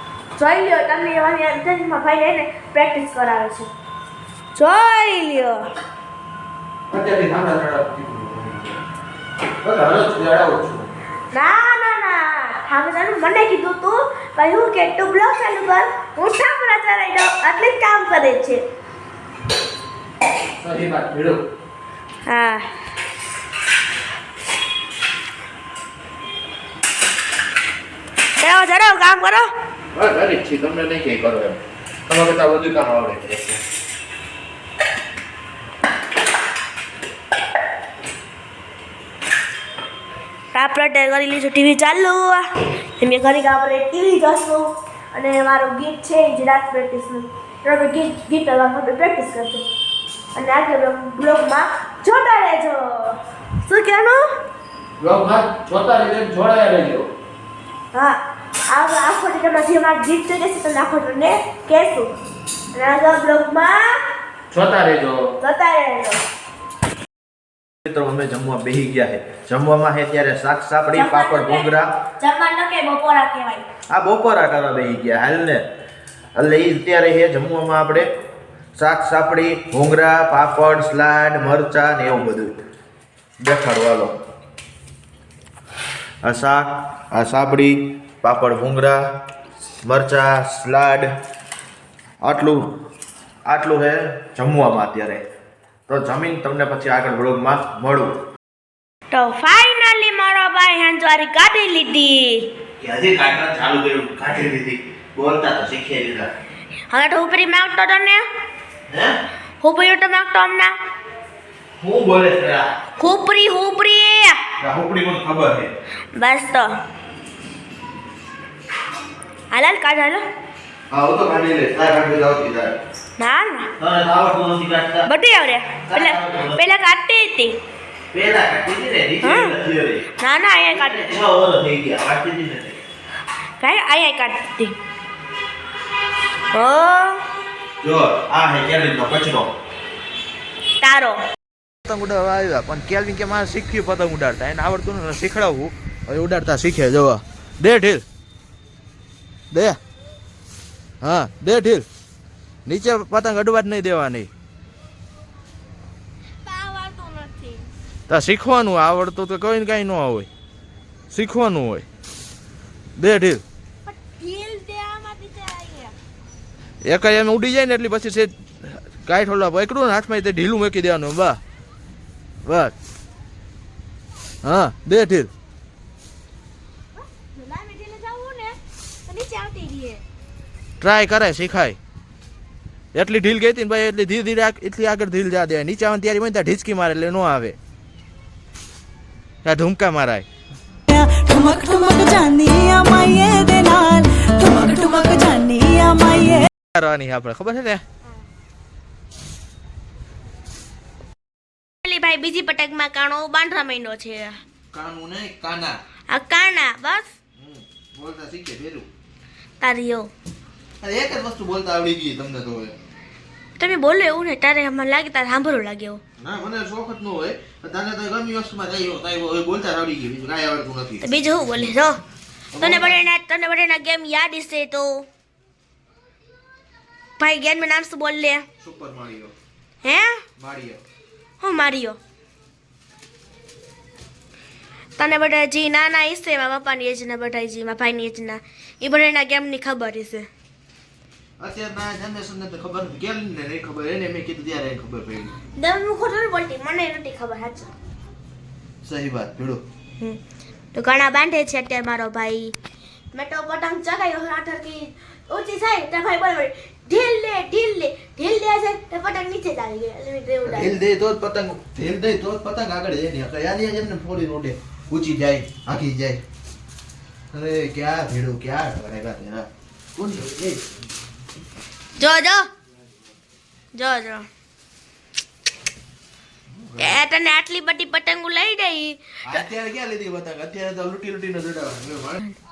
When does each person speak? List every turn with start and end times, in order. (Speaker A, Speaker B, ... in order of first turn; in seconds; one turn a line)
Speaker A: 0.3-3.7
Speaker A: 4.5-5.6
Speaker B: 6.9-8.8
Speaker B: 9.6-10.9
Speaker A: 11.3-18.6
Speaker B: 20.6-21.4
Speaker A: 22.2-22.7
Speaker A: 28.4-29.5
Speaker B: 29.9-33.6
Speaker A: 40.5-49.6
Speaker A: 50.3-54.2
Speaker B: 55.0-57.1
Speaker A: 57.9-58.2
Speaker A: 58.7-62.1
Speaker A: 62.7-64.0
Speaker B: 64.5-65.3
Speaker A: 65.4-66.2
Speaker C: 67.8-71.9
Speaker A: 70.9-73.7
Speaker C: 73.9-75.6
Speaker C: 76.3-78.1
Speaker C: 78.8-82.5
Speaker C: 83.4-84.2
Speaker C: 86.2-89.0
Speaker C: 89.8-91.1
Speaker C: 92.2-92.7
Speaker C: 93.5-95.2
Speaker C: 95.9-98.1
Speaker A: 99.1-102.4
Speaker C: 102.8-106.3
Speaker A: 106.9-108.2
Speaker A: 109.6-110.7
Speaker C: 111.8-112.7
Speaker A: 113.0-114.4
Speaker C: 114.6-115.7
Speaker A: 116.1-116.7
Speaker A: 119.5-120.2
Speaker C: 120.9-122.7
Speaker A: 123.2-123.7
Speaker C: 123.8-125.0
Speaker A: 125.1-127.6
Speaker C: 125.9-126.6
Speaker C: 128.1-130.0
Speaker A: 129.2-129.5
Speaker A: 130.2-131.1
Speaker C: 130.7-132.8
Speaker A: 133.6-134.8
Speaker A: 136.5-137.2
Speaker C: 137.8-139.5
Speaker A: 140.8-141.2
Speaker C: 141.8-148.0
Speaker C: 149.5-149.8
Speaker C: 151.0-151.8
Speaker C: 152.7-154.3
Speaker A: 156.4-157.7
Speaker C: 158.1-160.3
Speaker C: 161.1-161.8
Speaker C: 163.0-163.4
Speaker A: 163.8-165.9
Speaker C: 166.8-171.4
Speaker C: 172.4-172.7
Speaker C: 174.4-175.3
Speaker A: 177.1-180.0
Speaker C: 180.8-181.8
Speaker C: 182.9-187.6
Speaker C: 189.4-190.2
Speaker D: 190.9-196.4
Speaker C: 196.7-197.8
Speaker A: 201.8-204.4
Speaker C: 204.7-205.8
Speaker A: 206.1-207.1
Speaker C: 207.4-208.9
Speaker A: 209.6-210.1
Speaker C: 210.8-212.8
Speaker A: 213.6-216.0
Speaker C: 216.2-221.7
Speaker A: 221.0-222.0
Speaker C: 222.5-223.0
Speaker A: 222.6-225.0
Speaker A: 227.2-228.4
Speaker C: 228.6-229.3
Speaker A: 229.8-230.2
Speaker C: 230.4-230.8
Speaker A: 231.4-232.0
Speaker A: 235.0-240.3
Speaker C: 241.4-245.3
Speaker A: 245.6-247.7
Speaker C: 248.8-249.6
Speaker A: 250.7-252.5
Speaker A: 253.1-260.8
Speaker C: 260.4-266.2
Speaker C: 267.3-270.6
Speaker A: 272.0-272.5
Speaker A: 273.7-274.2
Speaker C: 276.5-277.0
Speaker A: 276.8-279.4
Speaker C: 279.2-282.2